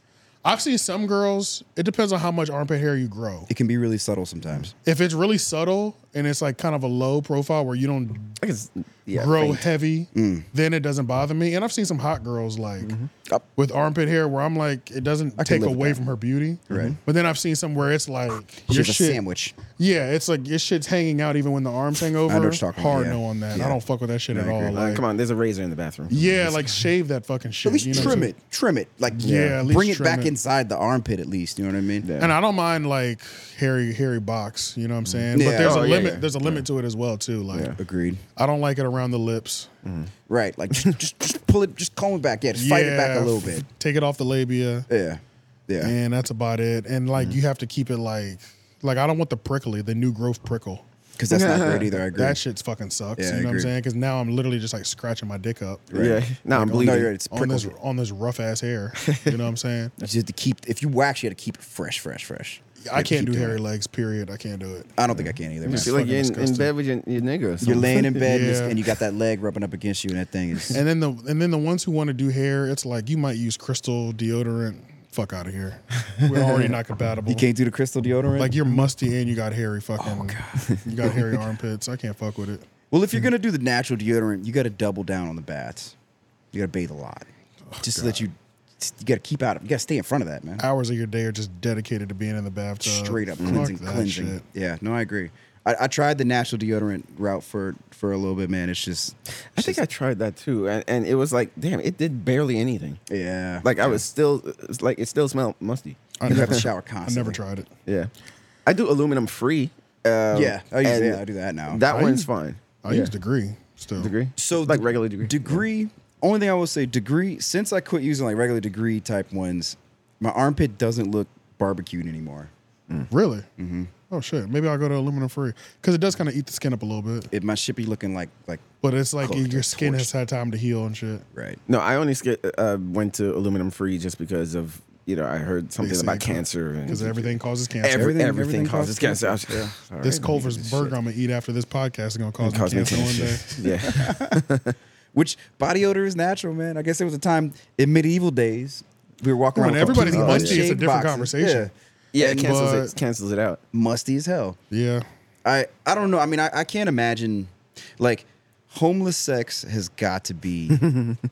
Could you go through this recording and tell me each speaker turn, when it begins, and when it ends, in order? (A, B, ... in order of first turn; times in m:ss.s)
0:00.4-0:03.5 A
0:03.5-0:04.7 B
0:04.8-0:08.4 A
0:08.4-0:09.6 C
0:09.2-0:12.9 A
0:10.1-0:10.5 B
0:12.8-0:13.1 C
0:13.6-0:19.2 A
0:15.4-0:16.0 B
0:16.7-0:17.0 B
0:16.7-0:17.0 C
0:18.7-0:19.6 B
0:19.8-0:25.0 A
0:22.2-0:23.8 B
0:24.3-0:24.8 B
0:24.7-0:26.5 C
0:26.1-0:28.3 A
0:27.6-0:32.1 B
0:29.1-0:30.3 A
0:29.2-0:29.6 C
0:32.0-0:32.4 C
0:32.2-0:37.7 A
0:35.0-0:36.6 C
0:35.3-0:36.2 B
0:37.5-0:37.8 C
0:37.8-0:38.2 B
0:38.4-0:39.7 A
0:39.8-0:40.1 C
0:40.3-0:43.6 B
0:42.5-0:44.9 A
0:44.9-0:45.9 B
0:45.8-0:50.8 A
0:51.2-0:52.4 B
0:51.3-0:51.9 C
0:52.1-0:55.9 A
0:53.2-0:53.7 B
0:55.9-0:57.7 B
0:55.9-0:57.1 C
0:56.5-0:59.9 A
1:00.0-1:03.6 B
1:02.8-1:04.9 A
1:05.0-1:05.9 B
1:05.6-1:06.7 A
1:05.6-1:08.3 C
1:07.6-1:10.8 B
1:08.2-1:08.8 A
1:10.7-1:17.4 A
1:17.3-1:18.8 B
1:18.4-1:22.6 A
1:20.0-1:21.2 B
1:22.9-1:25.9 B
1:26.5-1:27.3 B
1:27.7-1:28.2 A
1:27.8-1:30.6 B
1:30.6-1:34.4 A
1:32.8-1:39.8 B
1:39.5-1:43.0 C
1:43.1-1:44.0 B
1:43.6-1:46.6 C
1:46.2-1:47.7 A
1:46.2-1:47.4 B
1:48.6-1:53.1 C
1:50.3-1:51.8 B
1:51.9-1:52.3 A
1:52.8-1:54.1 A
1:54.0-1:55.6 C
1:54.4-2:02.5 B
2:03.1-2:03.5 A
2:03.6-2:03.9 B
2:04.1-2:07.3 A
2:07.3-2:08.6 B
2:08.8-2:11.2 A
2:09.2-2:10.1 B
2:11.3-2:11.6 B
2:11.7-2:21.0 C
2:15.8-2:18.1 A
2:17.9-2:19.7 B
2:20.0-2:23.5 A
2:22.4-2:24.7 C
2:23.8-2:24.4 B
2:25.1-2:32.6 B
2:29.5-2:31.7 A
2:29.8-2:30.7 C
2:32.1-2:33.6 C
2:32.2-2:32.9 A
2:33.7-2:34.6 B
2:34.7-2:35.0 A
2:35.4-2:40.8 B
2:40.7-2:41.2 C